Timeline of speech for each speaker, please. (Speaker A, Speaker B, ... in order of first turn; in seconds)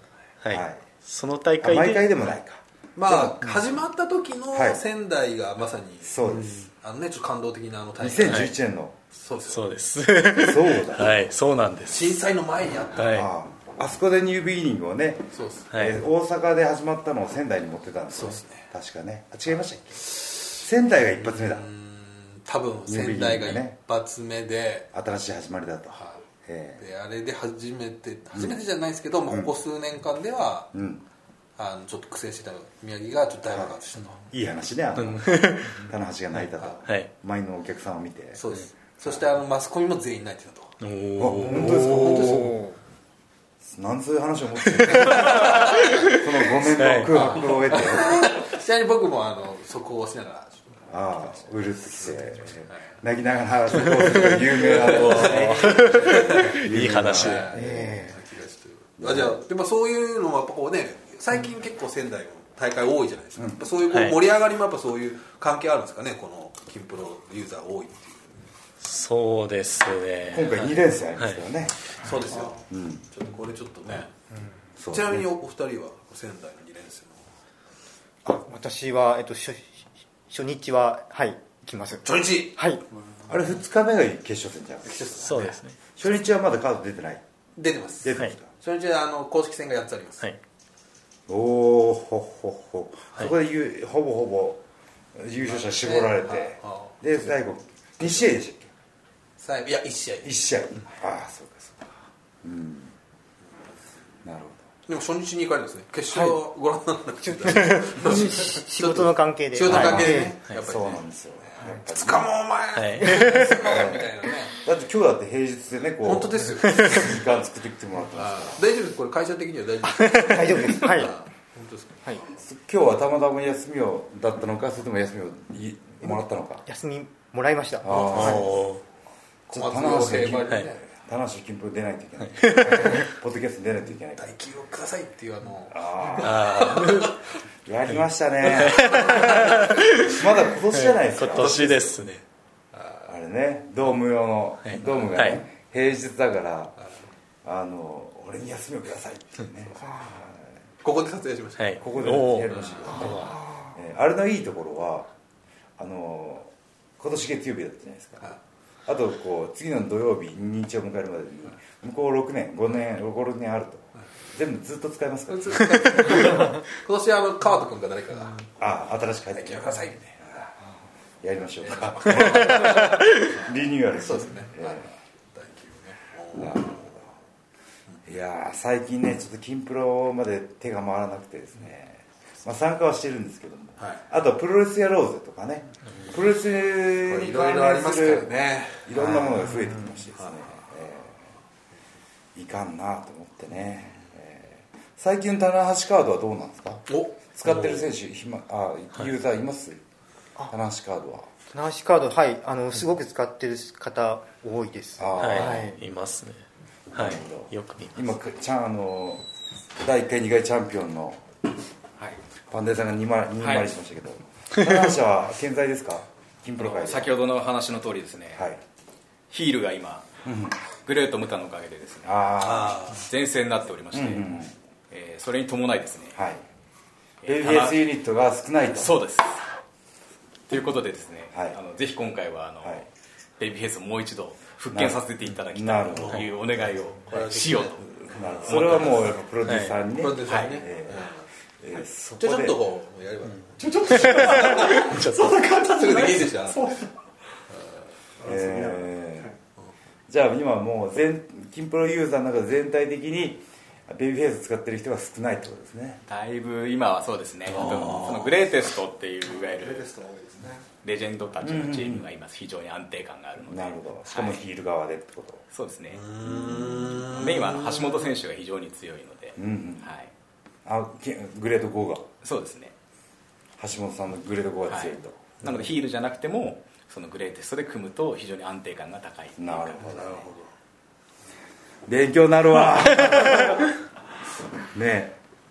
Speaker A: 0.4-2.1, 9.5-12.2, 12.9-13.3, 35.0-35.8, 40.8-42.5, 44.8-46.2, 46.8-47.2, 53.8-57.6, 63.9-64.2, 68.8-70.6, 85.2-85.7, 112.8-113.6, 116.7-117.0, 128.0-128.8, 132.4-132.8, 136.2-137.1, 138.4-140.2, 140.7-142.2, 144.7-145.4, 151.6-152.6, 172.9-173.2, 205.2-208.0, 239.4-239.8, 243.9-245.4
Speaker B: 0.5-0.8, 1.6-3.3, 4.5-4.8, 6.0-6.7, 8.0-8.9, 10.3-11.2, 13.1-21.7, 22.9-23.8, 24.9-26.8, 30.7-31.0, 34.3-38.4, 41.2-42.6, 43.6-48.3, 50.9-58.0, 59.0-59.4, 70.3-71.9, 72.5-73.0, 74.8-75.3, 83.3-85.4, 86.0-87.2, 88.0-88.5, 91.3-94.6, 95.1-98.7, 100.2-102.9, 104.2-104.7, 109.7-112.3, 113.7-118.6, 122.4-126.6, 127.8-128.5, 129.5-134.3, 135.7-136.6, 137.7-141.9, 143.1-146.8, 147.4-150.5, 151.8-155.1, 155.8-158.3, 158.8-166.2, 168.6-170.5, 171.2-174.8, 176.3-177.0, 178.0-191.2, 192.3-199.8, 200.5-201.3, 205.0-205.7, 206.9-209.2, 209.8-211.2, 212.5-217.2, 218.3-218.6, 220.2-220.6, 222.0-223.0, 223.9-224.5, 226.1-226.4, 227.2-228.9, 231.3-231.6, 234.7-236.3, 238.1-241.1, 241.6-242.6, 248.2-249.3, 250.1-256.0, 261.4-262.1, 263.4-265.4, 266.3-267.1, 269.4-269.9, 270.6-272.1, 273.6-275.6, 279.4-280.3, 281.9-283.6, 284.7-285.2
Speaker C: 3.0-8.5, 9.2-9.7, 11.9-13.2, 15.3-15.7, 18.1-18.7, 21.3-24.9, 25.9-26.2, 26.8-30.7, 31.6-34.2, 38.4-40.8, 41.5-42.6, 45.0-45.8, 47.1-50.9, 52.0-52.8, 53.9-68.5, 72.0-74.1, 74.9-77.2, 82.0-82.5, 84.9-85.5, 87.6-90.3, 95.5-97.2, 99.4-100.3, 104.9-114.6, 116.0-117.2, 118.1-122.4, 127.9-128.6, 129.5-130.8, 134.2-137.2, 138.8-139.6, 141.3-141.9, 142.7-143.1, 150.8-151.9, 152.5-153.2, 165.3-168.4, 169.3-170.2, 171.6-174.8, 175.3-176.9, 187.1-189.6, 190.2-190.6, 196.9-197.8, 222.4-223.0, 237.1-238.9, 239.9-241.2, 242.2-244.8, 245.5-246.7, 257.5-258.3, 265.9-268.1, 279.9-280.5
Speaker D: 57.5-58.1, 78.2-82.8, 107.2-110.3, 119.9-121.1, 126.7-128.4, 153.4-153.7, 201.5-205.8
Speaker E: 213.4-213.7, 216.6-218.4, 219.3-220.1, 220.8-222.1, 222.9-224.3, 224.9-226.2, 227.2-227.8, 228.7-229.4, 230.5-232.9, 233.4-237.8, 238.4-239.1, 240.2-240.6, 256.1-259.9, 260.8-264.4, 265.5-266.1, 267.1-270.1, 272.2-272.7, 274.7-280.0
Speaker F: 243.6-247.0, 248.2-249.3, 259.3-260.7